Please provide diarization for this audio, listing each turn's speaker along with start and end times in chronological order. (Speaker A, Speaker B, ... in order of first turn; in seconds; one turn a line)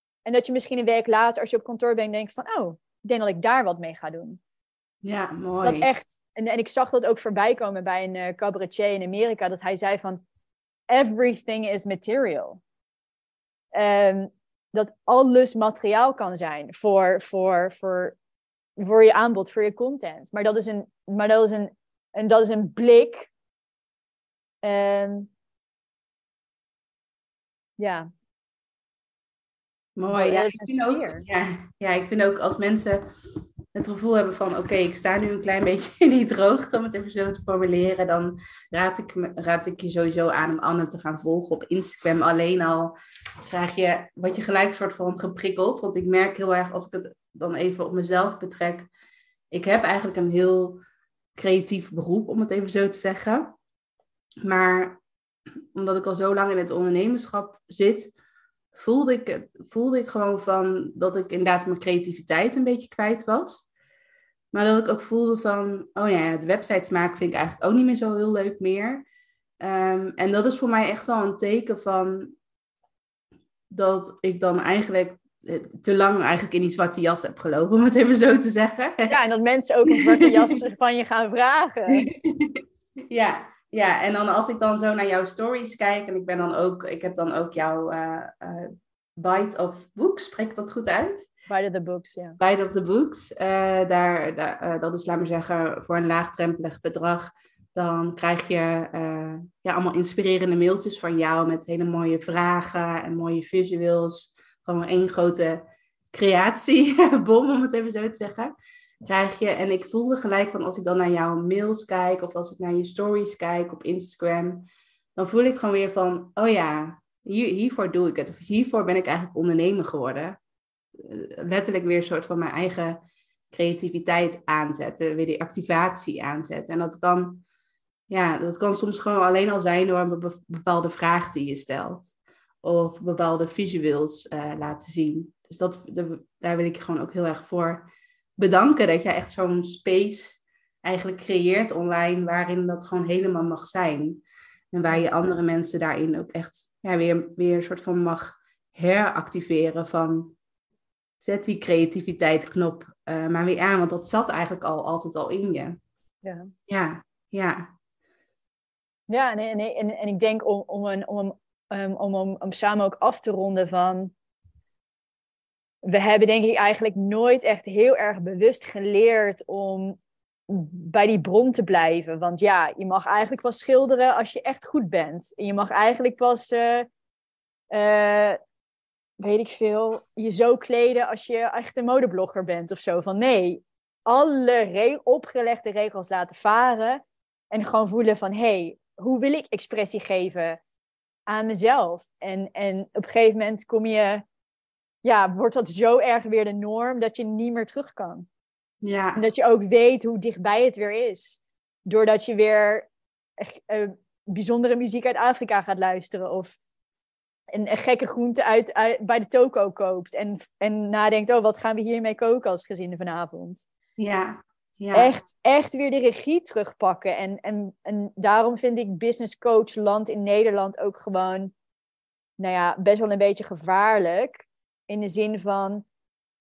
Speaker A: 0.2-4.4
Speaker B: 5.0-5.9
Speaker A: 5.6-10.2
Speaker A: 10.9-12.6
Speaker A: 13.7-18.2
Speaker A: 18.8-23.3
Speaker A: 24.6-25.3
Speaker A: 27.8-28.1
Speaker B: 30.0-33.0
Speaker A: 30.1-31.2
Speaker B: 33.7-48.9
Speaker B: 49.5-50.8
Speaker B: 51.4-53.5
Speaker B: 54.4-55.0
Speaker B: 55.7-58.1
Speaker B: 58.7-63.6
Speaker B: 64.5-69.0
Speaker B: 69.6-72.3
Speaker B: 73.7-79.2
Speaker A: 79.1-82.1
Speaker B: 82.0-91.3
Speaker A: 91.5-92.4
Speaker B: 92.4-105.6
Speaker B: 106.1-120.4
Speaker B: 121.0-123.0
Speaker B: 123.5-127.4
Speaker B: 128.1-132.1
Speaker B: 132.6-137.9
Speaker B: 138.4-150.3
Speaker B: 151.2-155.8
Speaker A: 156.2-156.5
Speaker B: 156.7-157.7
Speaker A: 159.1-164.1
Speaker A: 165.8-170.0
Speaker A: 170.5-176.9
Speaker A: 177.7-178.4
Speaker A: 179.2-190.6
Speaker A: 191.3-194.2
Speaker A: 195.0-198.3
Speaker B: 198.8-199.2
Speaker A: 199.2-206.6
Speaker A: 207.5-213.6
Speaker B: 214.0-215.1
Speaker A: 214.9-221.5
Speaker A: 222.4-225.8